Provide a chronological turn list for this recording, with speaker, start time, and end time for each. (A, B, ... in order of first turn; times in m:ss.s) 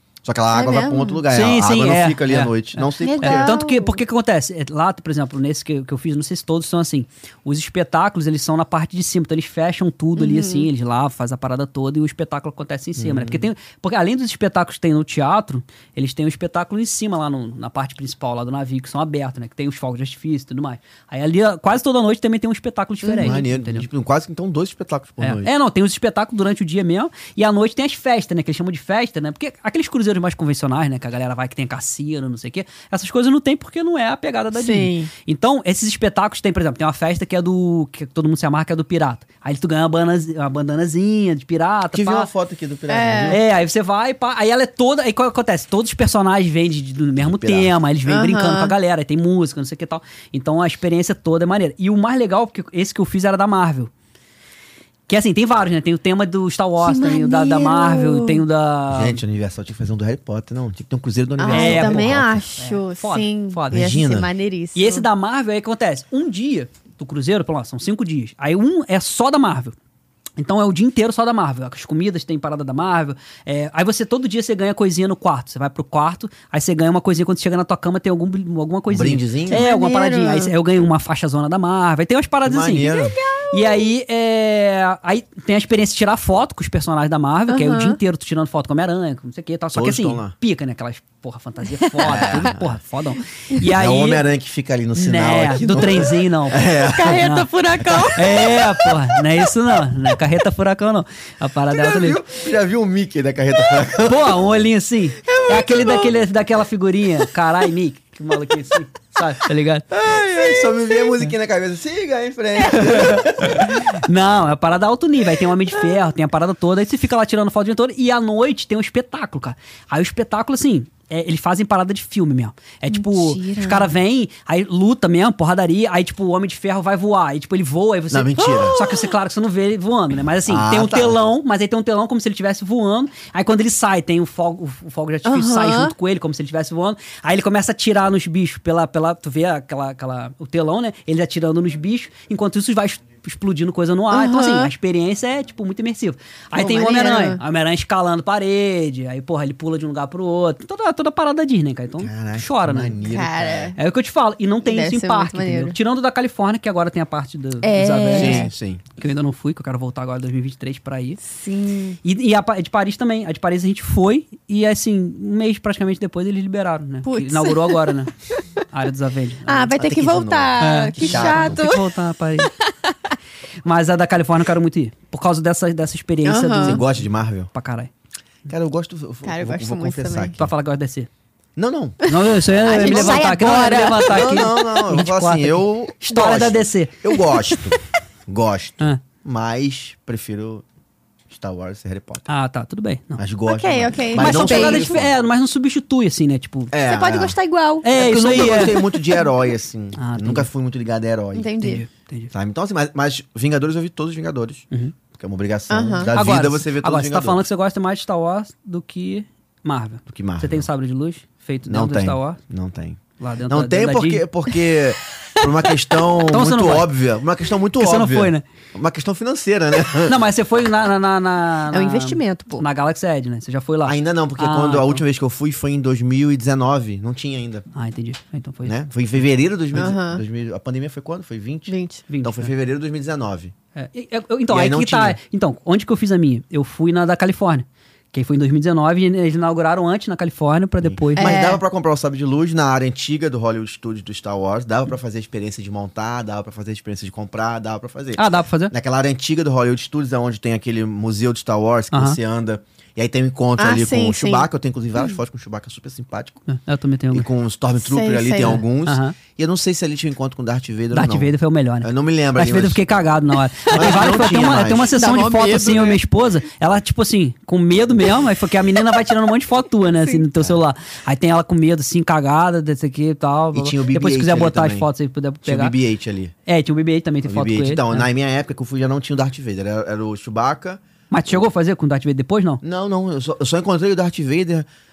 0:00.2-0:03.5 A
0:00.5-0:01.2 B
0:01.3-0:23.9 C
0:03.0-0:04.0 B
0:10.2-0:10.7 B
0:13.0-0:13.5 A
0:23.0-0:23.4 B
0:23.2-0:25.5 A
0:25.2-0:42.3 C
0:34.5-0:35.1 B
0:41.9-0:43.4 A
0:42.9-0:43.4 B
0:43.3-0:53.9 C
0:47.2-0:47.7 A
0:48.0-0:48.7 B
0:55.1-0:59.2 C
0:56.8-0:58.4 B
0:58.9-1:02.4 A
1:01.4-1:05.0 B
1:01.5-1:04.0 C
1:03.7-1:04.3 A
1:04.7-1:09.7 C
1:10.4-1:22.9 C
1:18.9-1:19.7 A
1:19.5-1:20.5 B
1:22.4-1:23.2 A
1:22.8-1:23.9 B
1:23.5-1:34.2 C
1:27.5-1:28.0 B
1:29.7-1:30.3 A
1:32.0-1:32.8 A
1:33.7-1:38.5 A
1:34.9-1:37.5 C
1:36.9-1:38.2 B
1:38.1-1:42.2 C
1:41.7-1:44.5 A
1:44.0-1:49.9 C
1:45.5-1:45.9 B
1:49.9-1:53.8 A
1:52.7-2:33.0 C
2:02.9-2:03.9 B
2:08.1-2:08.8 A
2:08.4-2:08.9 B
2:10.5-2:11.2 A
2:15.2-2:15.9 B
2:24.1-2:24.7 B
2:26.5-2:27.4 B
2:32.0-2:33.7 A
2:33.0-2:33.8 B
2:33.8-2:41.2 C
2:34.6-2:35.8 B
2:37.6-2:38.5 B
2:38.1-2:38.8 A
2:41.3-2:42.0 B
2:42.0-2:48.1 C
2:47.0-2:48.4 B
2:48.6-2:49.7 C
2:49.4-2:51.9 B
2:49.7-2:51.6 A
2:50.6-2:52.5 C
2:53.6-2:57.9 C
2:56.2-2:56.8 B
2:56.6-2:57.5 A
2:58.4-3:00.5 A
2:59.2-3:00.4 B
3:00.4-3:01.1 C
3:01.6-3:03.4 A
3:02.0-3:06.9 C
3:02.6-3:04.7 B
3:04.1-3:10.6 A
3:11.3-3:12.3 A
3:12.3-3:13.2 C
3:13.2-3:15.1 A
3:13.5-3:15.0 B
3:14.2-3:16.7 C
3:16.7-3:17.4 A
3:16.8-3:19.3 B
3:17.8-3:18.8 C
3:17.9-3:21.5 A
3:20.0-3:20.5 C
3:21.3-3:21.8 B
3:21.6-3:22.3 C
3:22.3-3:27.4 A
3:25.7-3:26.1 B
3:26.1-3:32.4 C
3:30.1-3:30.7 A
3:31.6-3:40.2 A
3:33.2-3:34.2 C
3:36.3-3:36.9 C
3:37.8-3:38.4 C
3:40.0-3:45.0 C
3:41.7-3:42.6 B
3:43.8-3:47.6 A
3:47.7-3:48.7 C
3:48.6-3:53.5 A
3:49.7-3:50.2 B
3:51.7-3:52.0 B
3:52.1-3:52.5 C
3:53.7-4:01.3 C
3:54.5-3:55.2 A
4:00.8-4:16.4 A
4:01.2-4:01.6 B
4:08.2-4:08.7 C
4:11.9-4:12.2 C
4:13.6-4:14.5 B
4:16.5-4:17.3 C
4:17.1-4:22.8 A
4:17.8-4:18.6 B
4:18.8-4:19.2 C
4:20.9-4:35.8 C
4:23.6-4:24.1 B
4:23.7-4:25.0 A
4:24.9-4:26.0 B
4:33.5-4:34.9 A
4:35.4-4:36.3 A
4:36.4-4:38.1 C
4:37.2-4:40.8 A
4:41.1-4:42.6 C
4:42.6-4:44.7 A